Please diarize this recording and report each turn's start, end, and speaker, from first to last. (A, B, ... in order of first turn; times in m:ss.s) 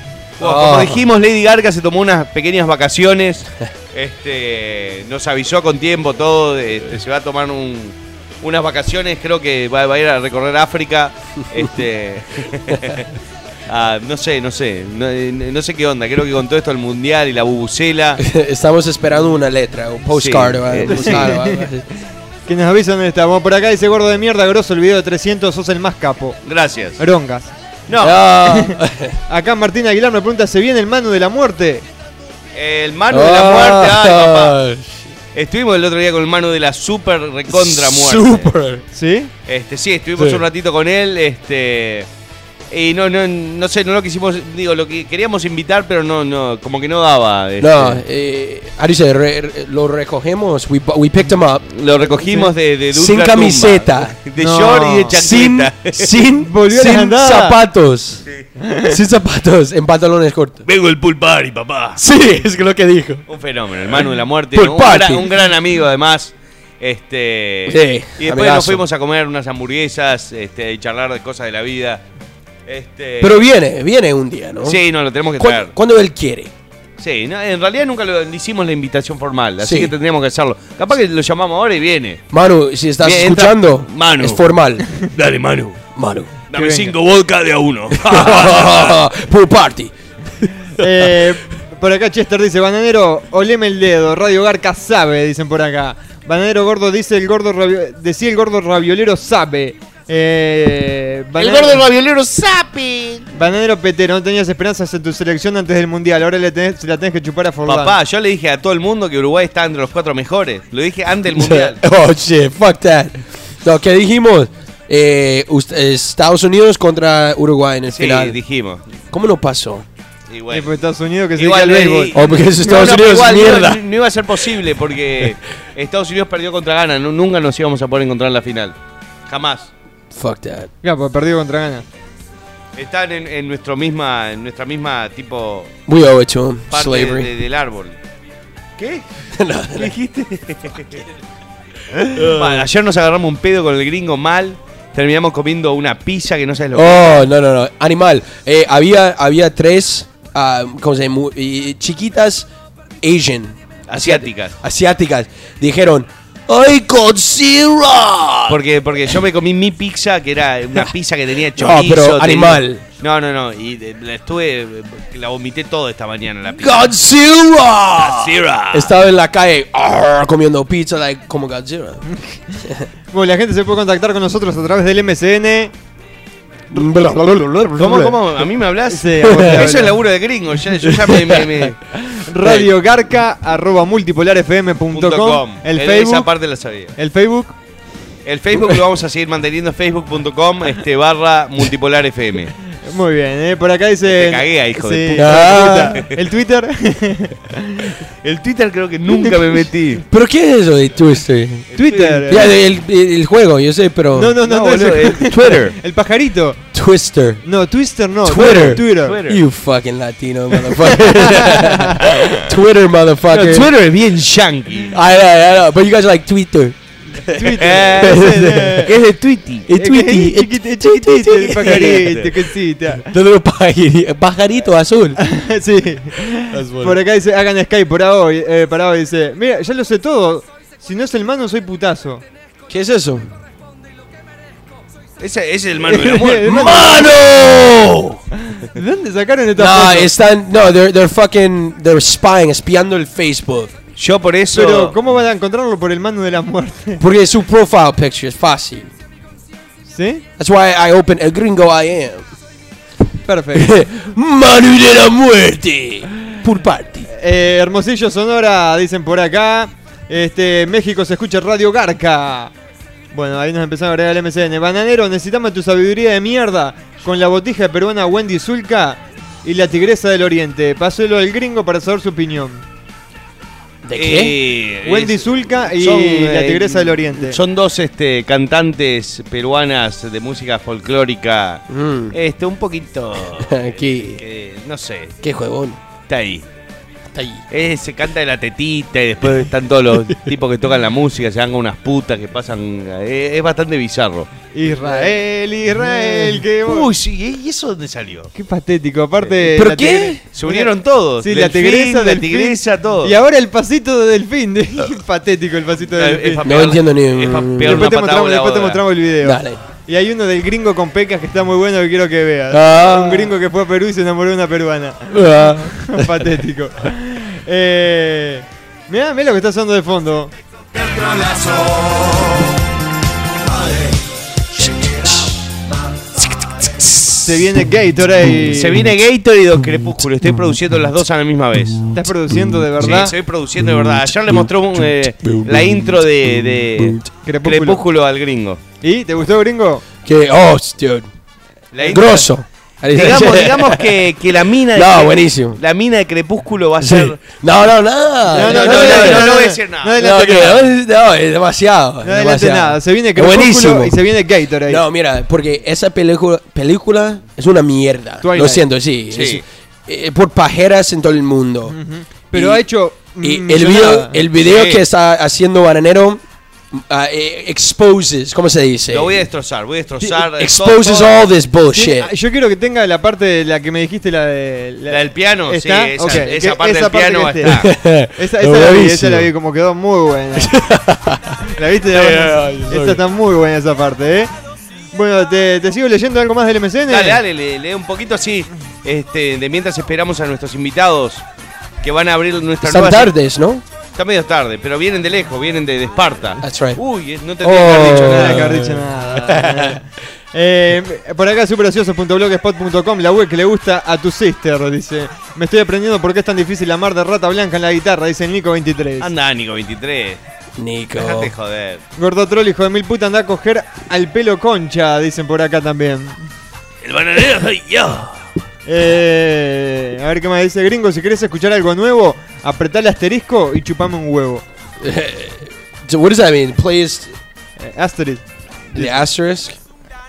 0:00.4-0:01.0 A
0:00.4-0:13.1 B
0:13.7-0:18.2 B
0:18.2-0:21.8 A
0:20.1-0:21.4 B
0:20.9-0:21.6 C
0:22.5-0:26.4 C
0:26.4-0:27.0 B
0:27.0-0:27.5 C
0:27.9-0:28.3 B
0:28.0-0:29.2 A
0:28.4-0:28.8 C
0:29.3-0:31.8 C
0:32.5-0:34.6 B
0:33.1-0:35.1 A
0:35.3-0:38.5 B
0:37.5-0:38.8 A
0:38.9-0:39.3 C
0:39.5-0:42.1 B
0:40.2-0:40.4 A
0:42.7-0:48.0 B
0:47.6-0:51.7 A
0:51.7-0:56.1 B
0:52.2-0:52.5 C
0:52.9-0:54.1 A
0:54.4-0:55.1 C
0:55.1-0:58.2 A
0:56.4-0:57.6 C
0:58.6-0:59.0 C
0:58.8-1:00.7 A
1:00.6-1:02.0 B
1:02.0-1:03.2 A
1:03.3-1:12.0 B
1:04.5-1:05.3 A
1:07.7-1:08.8 A
1:12.7-1:13.4 B
1:13.2-1:14.8 A
1:14.6-1:15.7 B
1:15.4-1:16.5 A
1:17.0-1:22.2 B
1:19.6-1:19.9 A
1:22.3-1:24.8 A
1:23.0-1:25.8 B
1:26.0-1:26.3 A
1:26.5-1:29.0 B
1:26.5-1:26.9 C
1:27.9-1:30.8 A
1:30.8-1:41.8 C
1:41.4-1:43.3 B
1:43.3-1:47.9 C
1:47.6-1:51.8 B
1:51.3-1:58.4 A
1:57.9-1:58.8 B
1:59.1-1:59.8 A
2:00.3-2:00.7 B
2:00.5-2:02.2 C
2:01.4-2:08.8 B
2:02.1-2:03.8 A
2:09.3-2:09.7 B
2:10.1-2:10.7 A
2:10.8-2:11.8 C
2:12.8-2:15.7 B
2:15.9-2:17.3 A
2:16.7-2:18.0 B
2:18.8-2:19.0 B
2:19.4-2:19.9 A
2:19.8-2:21.0 B
2:22.0-2:27.2 B
2:22.1-2:22.6 A
2:26.7-2:32.5 A
2:33.0-2:38.6 A
2:33.9-2:34.5 B
2:38.5-2:46.9 B
2:41.5-2:42.8 A
2:46.6-2:52.0 A
2:48.0-2:48.9 B
2:53.1-2:55.7 C
2:56.7-2:58.4 A
2:57.8-3:01.8 B
2:58.9-3:00.0 C
2:59.2-2:59.7 A
3:00.8-3:01.7 A
3:02.2-3:06.3 C
3:04.9-3:06.9 B
3:07.0-3:07.5 C
3:08.2-3:12.5 B
3:12.8-3:18.0 C
3:14.1-3:16.1 B
3:15.2-3:16.0 A
3:18.2-3:20.0 B
3:20.1-3:21.7 A
3:21.7-3:22.5 B
3:21.8-3:22.5 C
3:22.3-3:24.4 A
3:24.1-3:26.6 C
3:24.4-3:25.8 B
3:26.7-3:27.4 A
3:27.4-3:29.2 C
3:28.2-3:33.7 A
3:28.3-3:29.4 B
3:31.0-3:32.1 C
3:33.3-3:35.0 B
3:34.9-3:38.9 A
3:37.2-3:38.9 C
3:37.6-3:39.7 B
3:39.7-3:42.2 A
3:39.7-3:43.1 C
3:41.6-3:42.3 B
3:42.9-3:45.2 A
3:45.2-3:52.2 C
3:46.5-3:47.0 A
3:52.7-3:53.3 A
3:55.2-3:57.2 B
3:55.8-3:57.0 C
3:56.4-3:58.2 A
3:58.5-4:00.1 C
3:59.6-4:03.7 A
4:04.0-4:05.0 B
4:04.5-4:07.0 C
4:07.0-4:08.9 A
4:09.8-4:10.2 C
4:10.4-4:12.2 A
4:13.2-4:13.8 C
4:13.5-4:17.1 A
4:17.1-4:22.5 C
4:23.1-4:32.6 C
4:33.8-4:34.4 A
4:33.9-4:45.2 B
4:34.8-4:37.4 C
4:41.7-4:42.2 A
4:43.4-4:44.2 A
4:45.2-4:45.8 A
4:46.1-4:46.4 B
4:47.1-4:47.4 A
4:47.5-4:54.3 B
4:54.5-4:56.9 C
4:54.8-4:55.1 B
4:55.9-4:58.3 B
4:58.3-5:06.4 C
4:59.5-5:00.2 A
5:00.3-5:03.1 B
5:05.9-5:08.8 B
5:06.4-5:07.9 A
5:07.6-5:20.3 C
5:09.2-5:09.6 A
5:12.5-5:13.3 A
5:15.1-5:16.2 A
5:21.2-5:21.6 B
5:27.2-5:28.8 C
5:28.4-5:31.9 B
5:31.9-5:33.1 C
5:32.8-5:38.6 B
5:33.7-5:34.5 A
5:35.2-5:37.0 A
5:37.2-5:37.8 C
5:38.8-5:39.8 C
5:40.0-5:41.1 A
5:41.7-5:42.3 B
5:41.9-5:44.1 A
5:42.9-5:47.2 B
5:44.7-5:45.6 A
5:46.8-5:49.4 A
5:48.3-5:50.6 C
5:48.4-5:50.0 B
5:50.0-5:54.0 A
5:52.0-5:54.8 C
5:54.7-6:01.8 A
5:58.2-5:58.6 C
5:59.1-5:59.4 B
6:01.7-6:04.2 C
6:02.3-6:02.6 A
6:03.2-6:09.3 A
6:04.4-6:04.8 B
6:08.9-6:11.3 B
6:10.0-6:12.1 A
6:11.7-6:20.5 C
6:14.9-6:17.7 B
6:17.4-6:19.3 A
6:20.4-6:21.4 A
6:21.5-6:24.3 C
6:21.9-6:23.0 A
6:24.9-6:27.2 C
6:26.9-6:31.2 B
6:31.8-6:33.1 B
6:32.6-6:33.6 A
6:34.0-6:38.6 B
6:36.4-6:36.8 A
6:37.4-6:39.8 A
6:37.8-6:49.1 C
6:49.0-6:50.2 B
6:50.6-6:51.3 A
6:50.9-6:51.8 B
6:52.0-6:56.2 C
6:56.8-6:58.2 B
6:58.7-7:04.4 C
7:04.8-7:07.1 A
7:07.6-7:09.0 C
7:08.7-7:09.6 A